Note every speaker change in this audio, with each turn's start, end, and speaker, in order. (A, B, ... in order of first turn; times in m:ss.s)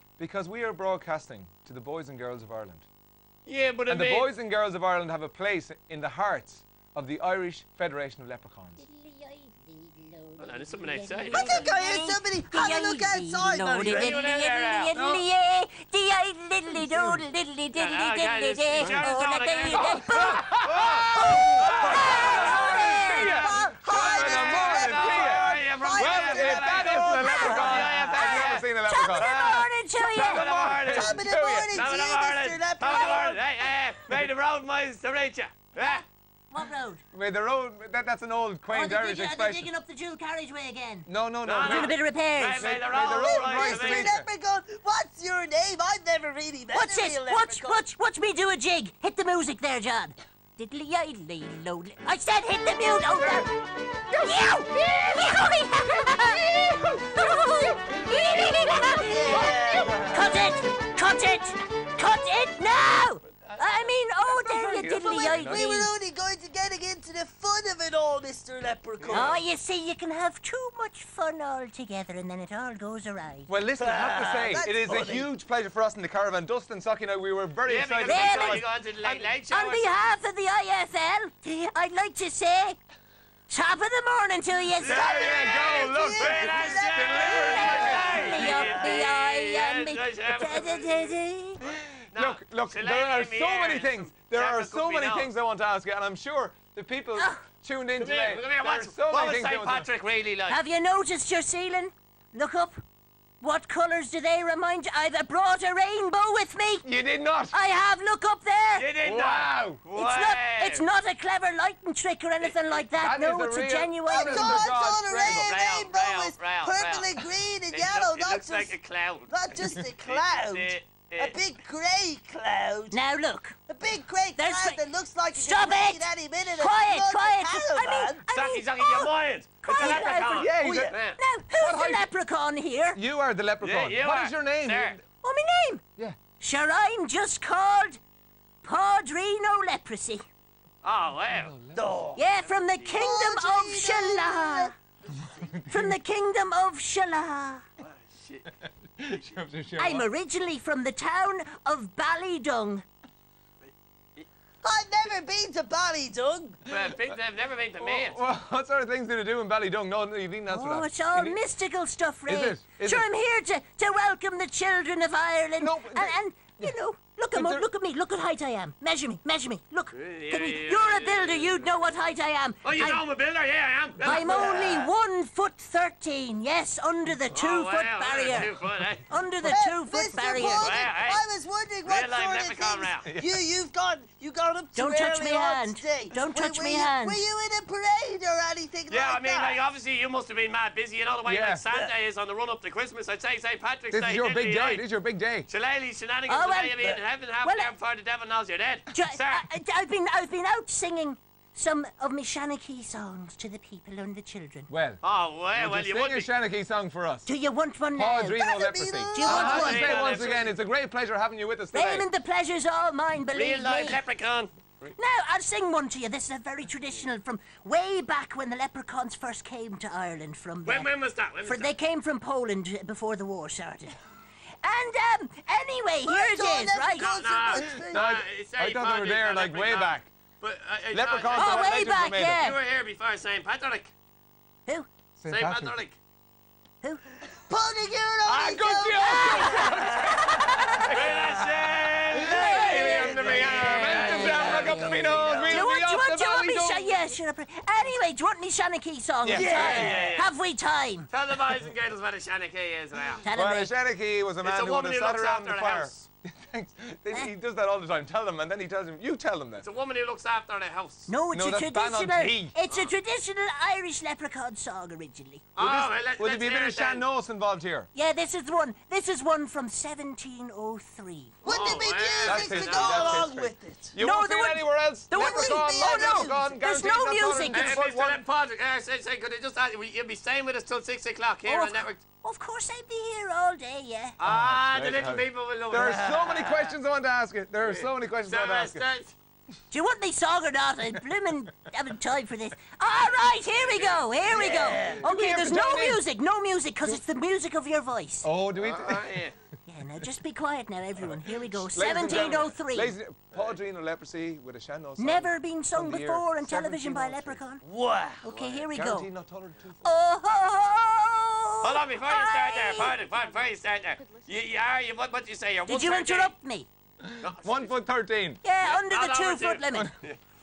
0:00.2-0:02.9 A
0:03.4-0:04.3 B
0:03.9-0:08.8 A
0:08.8-0:20.6 C
0:10.4-0:11.6 B
0:11.3-0:14.1 D
0:13.8-0:14.9 B
0:14.9-0:15.2 A
0:16.8-0:17.2 D
0:17.8-0:20.2 B
0:19.7-0:31.8 A
0:20.8-0:21.1 B
0:21.1-0:23.7 C
0:21.2-0:28.2 D
0:21.6-0:36.0 B
0:27.2-0:30.4 C
0:30.8-0:33.4 D
0:35.8-0:37.0 C
0:37.1-0:39.7 A
0:38.7-0:41.1 C
0:41.1-0:42.0 A
0:41.4-0:44.2 B
0:41.6-0:42.7 C
0:42.6-0:44.3 A
0:42.9-0:47.8 D
0:46.7-0:53.5 C
0:53.2-0:53.5 A
0:54.1-0:54.9 A
0:54.2-0:59.5 C
0:56.6-0:57.2 A
0:57.9-0:58.6 A
0:59.0-1:00.2 D
0:59.3-1:00.3 A
1:00.1-1:05.9 C
1:03.4-1:03.8 B
1:04.3-1:05.7 A
1:05.1-1:09.4 D
1:09.0-1:09.3 B
1:09.1-1:13.5 C
1:13.5-1:19.3 A
1:13.8-1:15.3 D
1:17.7-1:19.9 B
1:18.1-1:18.6 C
1:19.5-1:22.8 C
1:23.5-1:25.0 C
1:24.8-1:31.0 B
1:24.8-1:28.7 A
1:24.8-1:28.8 D
1:27.3-1:31.6 C
1:31.7-1:39.9 A
1:32.1-1:35.3 B
1:37.2-1:37.4 C
1:38.0-1:40.6 B
1:40.5-1:42.8 C
1:43.4-1:46.8 C
1:46.8-1:47.6 A
1:47.5-1:48.9 C
1:48.8-1:50.8 B
1:49.0-1:49.8 A
1:49.9-1:54.7 C
1:53.0-1:55.5 A
1:54.1-1:58.7 D
1:55.2-2:01.4 B
1:59.3-2:03.0 D
2:02.9-2:03.6 C
2:03.7-2:08.2 D
2:04.4-2:04.8 C
2:05.3-2:09.1 C
2:08.3-2:11.2 B
2:09.6-2:10.6 C
2:09.8-2:11.0 A
2:10.6-2:10.9 D
2:11.2-2:13.0 C
2:11.5-2:12.1 A
2:12.9-2:15.0 A
2:13.6-2:15.0 B
2:15.2-2:15.8 C
2:16.4-2:18.0 C
2:18.6-2:20.2 C
2:20.8-2:21.6 B
2:21.3-2:22.2 A
2:21.8-2:22.2 D
2:22.2-2:24.7 C
2:22.4-2:23.0 B
2:22.9-2:24.7 D
2:25.3-2:26.0 A
2:25.7-2:27.6 C
2:27.8-2:28.5 B
2:29.0-2:30.1 A
2:29.8-2:32.8 C
2:33.6-2:34.3 B
2:34.6-2:36.6 D
2:36.7-2:38.2 B
2:37.8-2:41.4 A
2:40.5-2:53.0 C
2:42.3-2:43.1 A
2:45.6-2:46.7 A
2:47.3-2:47.7 A
2:49.9-2:51.6 B
2:52.6-2:54.8 B
2:54.0-2:58.5 C
2:54.1-2:54.8 D
2:57.3-2:59.1 B
2:59.1-3:00.8 C
2:59.5-3:09.6 D
3:00.4-3:01.2 B
3:01.8-3:03.1 B
3:03.0-3:03.4 A
3:04.8-3:07.2 C
3:08.9-3:14.8 B
3:11.2-3:11.6 A
3:13.9-3:15.5 A
3:15.5-3:19.4 B
3:16.3-3:17.7 C
3:18.9-3:24.7 C
3:24.7-3:25.0 A
3:25.0-3:26.3 B
3:25.6-3:27.3 A
3:27.3-3:28.6 C
3:28.0-3:32.1 A
3:28.3-3:30.0 D
3:29.1-3:30.0 C
3:29.2-3:30.5 B
3:31.7-3:34.0 C
3:33.3-3:34.5 B
3:35.0-3:40.9 C
3:40.6-3:41.7 B
3:41.4-3:43.9 C
3:44.6-3:47.2 C
3:46.1-3:48.1 D
3:47.0-3:53.9 B
3:47.5-3:50.1 A
3:50.9-3:52.4 A
3:51.3-3:52.6 C
3:55.2-3:55.8 A
3:55.3-3:56.0 B
3:57.5-4:00.1 D
3:58.2-4:07.1 A
3:59.0-4:00.9 C
4:00.9-4:05.7 B
4:02.2-4:11.1 C
4:04.0-4:05.3 D
4:09.2-4:10.0 A
4:09.3-4:10.2 D
4:09.4-4:10.3 B
4:11.1-4:13.2 B
4:13.2-4:13.7 C
4:13.3-4:19.6 A
4:14.4-4:16.0 B
4:19.6-4:21.1 B
4:21.1-4:25.4 C
4:21.3-4:22.5 A
4:25.6-4:27.0 B
4:25.6-4:27.9 A
4:27.9-4:31.4 C
4:31.4-4:33.9 D
4:31.4-4:33.3 B
4:32.2-4:38.2 A
4:34.0-4:37.8 C
4:35.1-4:36.6 D
4:37.5-4:42.0 B
4:41.4-4:44.2 C
4:44.2-4:46.8 B
4:44.2-4:48.8 A
4:45.8-4:46.1 D
4:47.6-4:49.1 B
4:49.7-4:58.3 C
4:53.5-4:54.7 B
4:54.3-4:55.0 D
4:54.8-4:56.0 A
4:58.2-4:59.2 A
4:58.6-4:59.3 B
4:59.7-5:03.0 C
5:01.0-5:07.4 A
5:02.0-5:02.5 B
5:05.0-5:07.6 C
5:07.6-5:08.2 D
5:08.2-5:09.1 C
5:08.3-5:08.7 B
5:08.7-5:09.9 A
5:09.8-5:12.9 C
5:11.6-5:16.3 B
5:15.7-5:16.7 C
5:17.0-5:18.4 A
5:17.2-5:17.8 B
5:18.4-5:19.9 C
5:18.6-5:20.2 B